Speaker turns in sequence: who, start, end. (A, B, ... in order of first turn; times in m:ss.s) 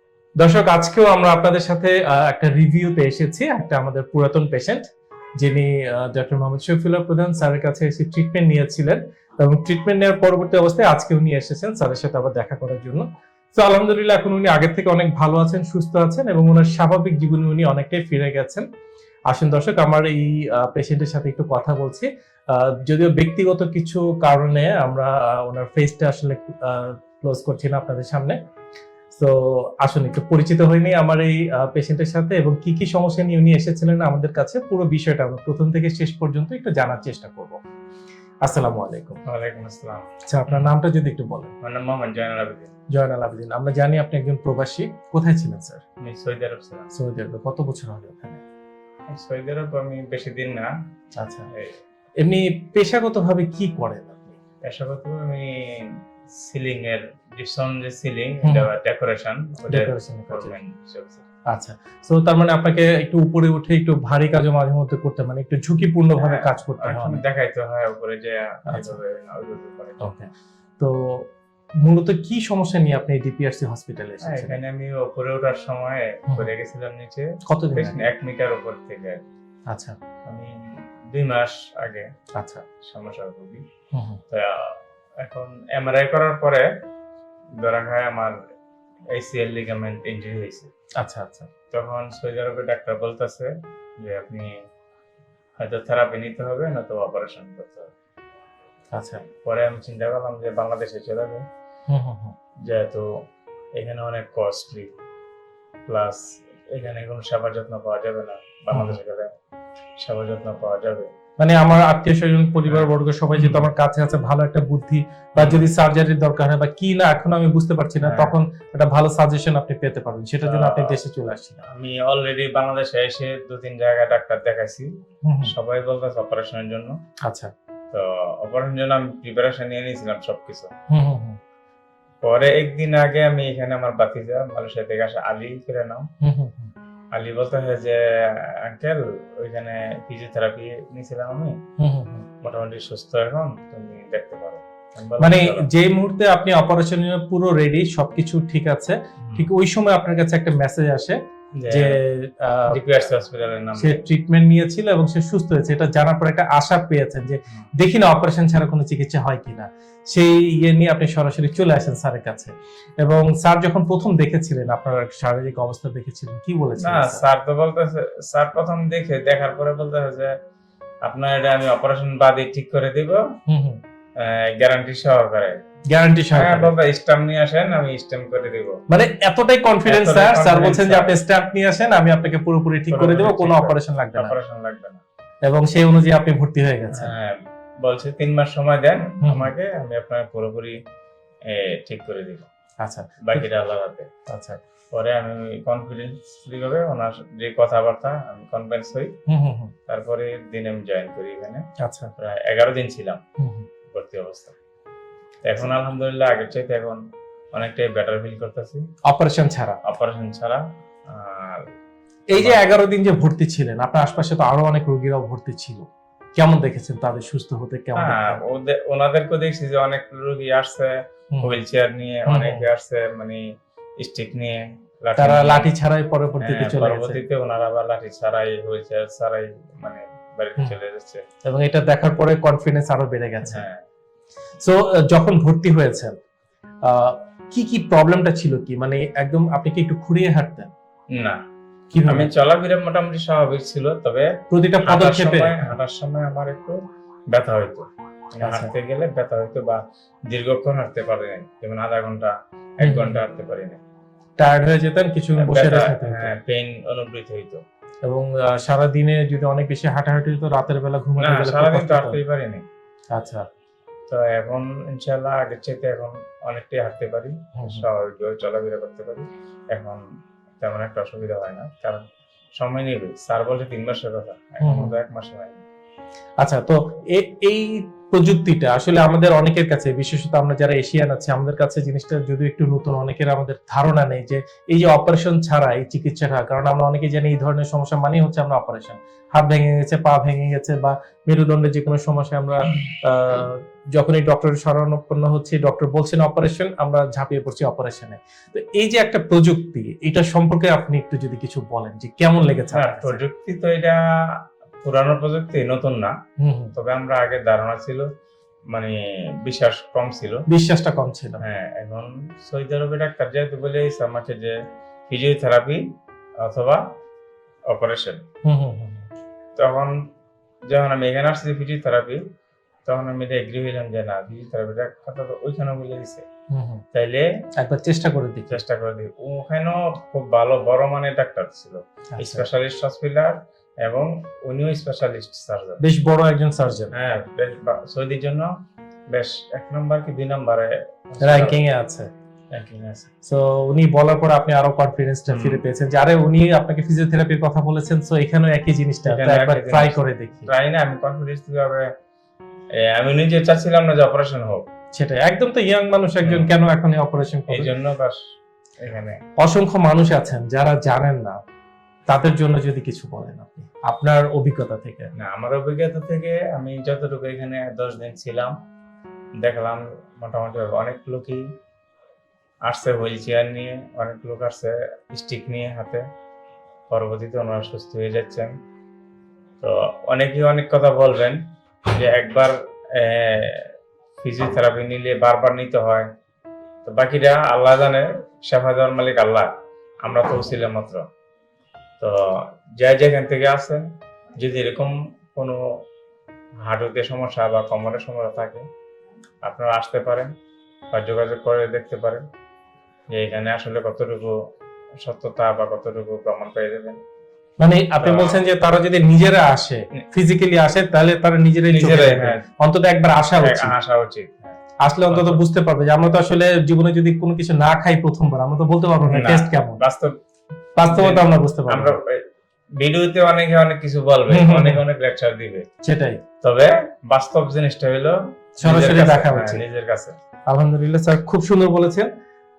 0:00.4-0:04.8 A
0:05.4-0:18.6 A
0:19.3-0:28.4 A
0:29.2-0:37.6 A
0:38.4-0:39.2 A
0:39.2-0:40.7 B
0:40.3-0:41.5 A
0:41.6-0:42.7 B
0:42.9-0:45.8 A
0:46.0-0:46.9 B
0:46.9-0:48.4 A
0:49.1-0:50.7 B
0:51.2-0:51.5 A
0:52.2-0:54.3 A
0:54.6-0:55.8 B
0:56.4-1:01.2 B
0:58.4-0:58.7 A
0:59.7-1:00.5 A
1:01.5-1:07.2 A
1:06.2-1:10.2 B
1:08.7-1:09.0 A
1:10.0-1:11.2 A
1:11.8-1:14.6 A
1:14.2-1:19.2 B
1:17.4-1:18.0 A
1:19.7-1:20.0 A
1:20.2-1:20.5 B
1:21.1-1:22.1 B
1:22.4-1:22.6 A
1:22.8-1:23.6 B
1:23.9-1:24.2 A
1:24.3-1:26.7 B
1:27.6-1:28.4 B
1:29.1-1:30.7 B
1:31.0-1:31.5 A
1:31.7-1:34.5 B
1:35.6-1:37.9 B
1:38.9-1:39.2 A
1:39.4-1:41.4 B
1:41.9-1:42.3 A
1:42.6-1:43.1 B
1:43.8-1:44.9 B
1:45.9-1:49.3 B
1:48.7-1:49.0 A
1:50.0-1:51.1 B
1:51.4-2:01.6 A
1:52.7-1:53.6 B
1:55.4-1:55.7 B
1:58.0-1:58.3 B
2:00.4-2:01.0 B
2:01.7-2:04.9 B
2:05.2-2:05.5 A
2:05.4-2:07.0 B
2:07.9-2:10.7 B
2:10.9-2:11.4 A
2:12.2-2:16.0 B
2:16.2-2:16.7 A
2:17.1-2:21.6 B
2:21.8-2:22.2 A
2:22.4-2:25.6 B
2:25.2-2:31.2 A
2:29.2-2:29.5 B
2:31.6-2:31.9 B
2:31.7-2:32.8 A
2:32.7-2:34.0 B
2:33.8-2:47.2 A
2:46.8-2:50.3 B
2:51.0-2:53.2 B
2:53.5-2:53.8 A
2:54.2-2:55.6 B
2:55.9-2:56.7 A
2:56.3-2:58.8 B
2:58.9-3:04.4 A
2:59.9-3:01.1 B
3:02.9-3:05.0 B
3:05.4-3:07.1 A
3:06.9-3:10.8 B
3:09.2-3:09.5 A
3:11.5-3:12.4 B
3:12.8-3:13.4 A
3:13.2-3:14.1 B
3:14.3-3:14.6 A
3:14.9-3:19.1 B
3:19.3-3:19.7 A
3:19.9-3:21.6 B
3:21.8-3:22.1 A
3:22.2-3:23.2 B
3:23.4-3:23.6 A
3:23.9-3:24.5 B
3:25.4-3:27.0 B
3:27.5-3:28.8 B
3:29.0-3:29.8 A
3:29.8-3:31.6 B
3:32.3-3:38.4 A
3:32.3-3:32.8 B
3:38.0-3:43.4 B
3:42.2-3:42.6 A
3:44.0-3:45.7 B
3:45.2-3:47.2 A
3:46.4-3:51.2 B
3:51.4-3:53.6 A
3:53.5-3:53.8 B
3:54.6-3:56.2 A
3:56.8-4:00.7 A
4:01.1-4:01.4 B
4:01.9-4:02.3 A
4:02.1-4:04.3 B
4:04.5-4:05.5 A
4:04.8-4:06.8 B
4:07.3-4:13.8 B
4:08.4-4:08.7 A
4:12.8-4:13.2 A
4:14.4-4:16.3 A
4:15.4-4:17.6 B
4:18.0-4:22.2 A
4:21.2-4:22.6 B
4:23.1-4:23.4 A
4:24.1-4:30.0 B
4:27.6-4:27.8 A
4:30.6-4:32.0 B
4:32.6-4:35.6 B
4:34.6-4:34.9 A
4:36.4-5:03.2 A
5:02.7-5:04.0 B
5:04.8-5:06.1 B
5:06.4-5:06.7 A
5:06.8-5:08.1 B
5:08.7-5:10.4 B
5:10.5-5:11.4 A
5:11.4-5:14.6 B
5:15.1-5:15.8 B
5:16.4-5:16.8 B
5:17.7-5:18.2 B
5:18.4-5:19.1 A
5:19.6-5:20.0 B
5:20.7-5:22.2 B
5:22.9-5:26.2 B
5:26.5-5:26.8 A
5:26.9-5:27.2 B
5:27.6-5:28.6 A
5:28.5-5:35.8 B
5:32.1-5:32.4 A
5:35.8-5:36.9 A
5:36.9-5:38.5 B
5:39.1-5:41.6 B
5:41.2-5:42.1 A
5:42.5-5:43.1 B
5:43.2-5:50.5 A
5:45.3-5:45.6 B
5:49.0-5:51.9 B
5:52.9-5:54.7 B
5:54.9-5:57.7 A
5:56.2-5:56.5 B
5:57.5-5:58.2 B
5:58.8-5:59.2 B
5:59.4-6:01.4 A
6:02.1-6:05.1 A
6:05.2-6:08.5 B
6:09.4-6:11.4 B
6:12.6-6:16.0 B
6:16.9-6:18.5 B
6:19.6-6:21.4 B
6:21.9-6:23.7 B
6:24.2-6:26.0 B
6:26.8-6:29.5 B
6:30.0-6:31.0 B
6:32.8-6:33.8 B
6:34.4-6:35.6 B
6:36.6-6:38.6 B
6:39.4-6:40.3 B
6:40.9-6:42.2 B
6:43.1-6:44.4 B
6:45.0-6:47.0 B
6:47.6-6:53.7 A
6:48.0-6:48.4 B
6:51.7-6:52.4 B
6:53.4-6:54.6 B
6:54.8-6:59.8 A
6:55.1-6:55.4 B
6:59.0-7:00.2 B
7:00.8-7:01.9 A
7:00.8-7:02.2 B
7:02.8-7:05.6 B
7:04.3-7:04.8 A
7:05.8-7:06.2 A
7:06.4-7:10.1 B
7:08.6-7:09.6 A
7:10.5-7:12.1 A